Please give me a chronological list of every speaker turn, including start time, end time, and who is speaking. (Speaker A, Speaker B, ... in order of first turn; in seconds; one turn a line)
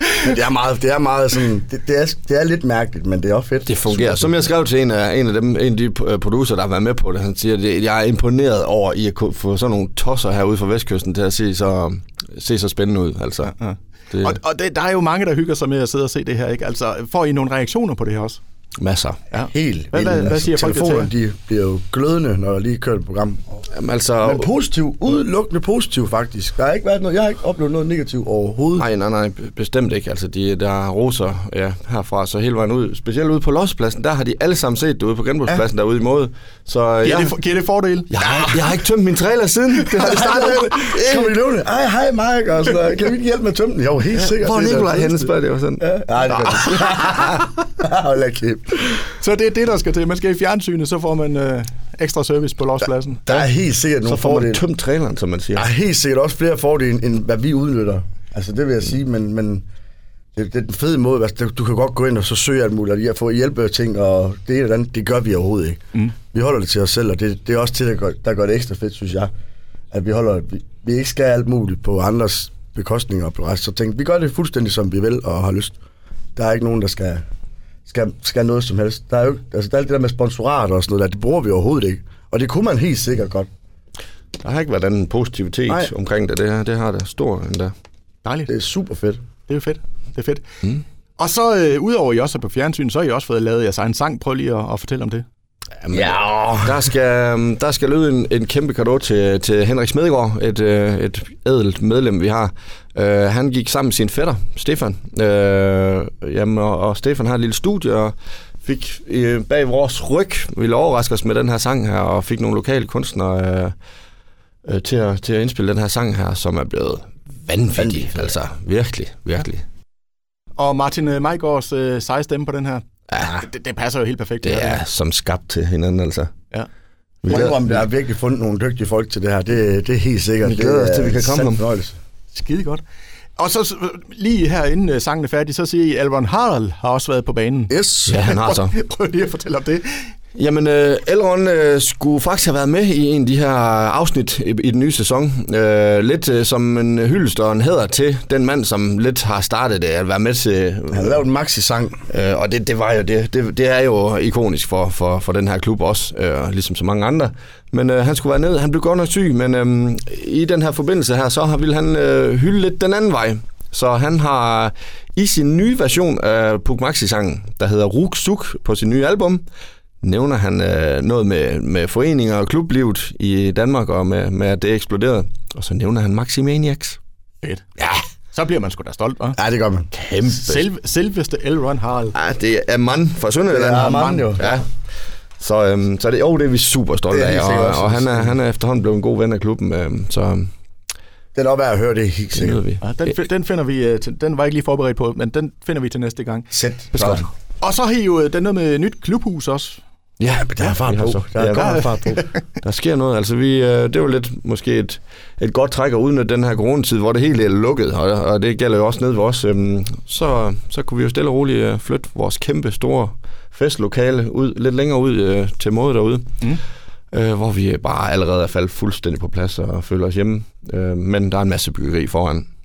Speaker A: 0.2-4.3
Speaker B: 3.6-13.5
Speaker C: 13.6-18.4
Speaker B: 14.1-14.4
Speaker B: 18.8-19.2
Speaker C: 19.3-21.1
Speaker A: 19.5-23.6
Speaker B: 23.7-24.5
Speaker A: 24.2-28.8
Speaker B: 28.8-37.3
Speaker C: 37.0-38.5
Speaker B: 38.1-41.3
Speaker C: 40.0-40.9
Speaker A: 40.0-45.3
Speaker B: 44.3-46.6
Speaker A: 45.8-49.0
Speaker C: 49.2-53.2
Speaker A: 53.3-54.6
Speaker B: 54.0-55.6
Speaker A: 55.5-59.6
Speaker A: 60.3-69.3
Speaker A: 69.9-75.8
Speaker A: 76.3-77.2
Speaker A: 77.9-83.5
Speaker B: 84.4-87.7
Speaker C: 88.2-88.5
Speaker A: 88.5-89.2
Speaker C: 89.5-90.4
Speaker C: 91.2-95.2
Speaker B: 95.8-113.7
Speaker A: 95.9-96.7
Speaker B: 114.6-119.6
Speaker A: 117.8-118.3
Speaker C: 120.6-124.8
Speaker B: 123.1-123.5
Speaker B: 124.4-126.3
Speaker B: 127.2-127.8
Speaker A: 127.3-131.9
Speaker B: 130.4-131.6
Speaker C: 132.3-132.8
Speaker C: 133.4-140.1
Speaker A: 137.7-138.2
Speaker B: 138.1-138.7
Speaker B: 140.3-151.2
Speaker A: 150.9-152.0
Speaker B: 152.1-169.4
Speaker B: 170.0-177.0
Speaker C: 177.4-177.7
Speaker C: 178.3-179.4
Speaker A: 179.4-179.9
Speaker B: 179.9-180.7
Speaker C: 180.2-182.1
Speaker B: 182.1-184.7
Speaker A: 183.5-184.5
Speaker B: 185.4-190.5
Speaker A: 187.1-188.3
Speaker A: 191.3-192.6
Speaker B: 192.3-193.1
Speaker C: 192.8-196.5
Speaker A: 196.5-197.3
Speaker B: 196.9-197.2
Speaker C: 197.6-199.8
Speaker B: 200.2-201.8
Speaker A: 200.4-202.2
Speaker C: 201.5-202.3
Speaker B: 202.6-216.3
Speaker B: 217.1-222.4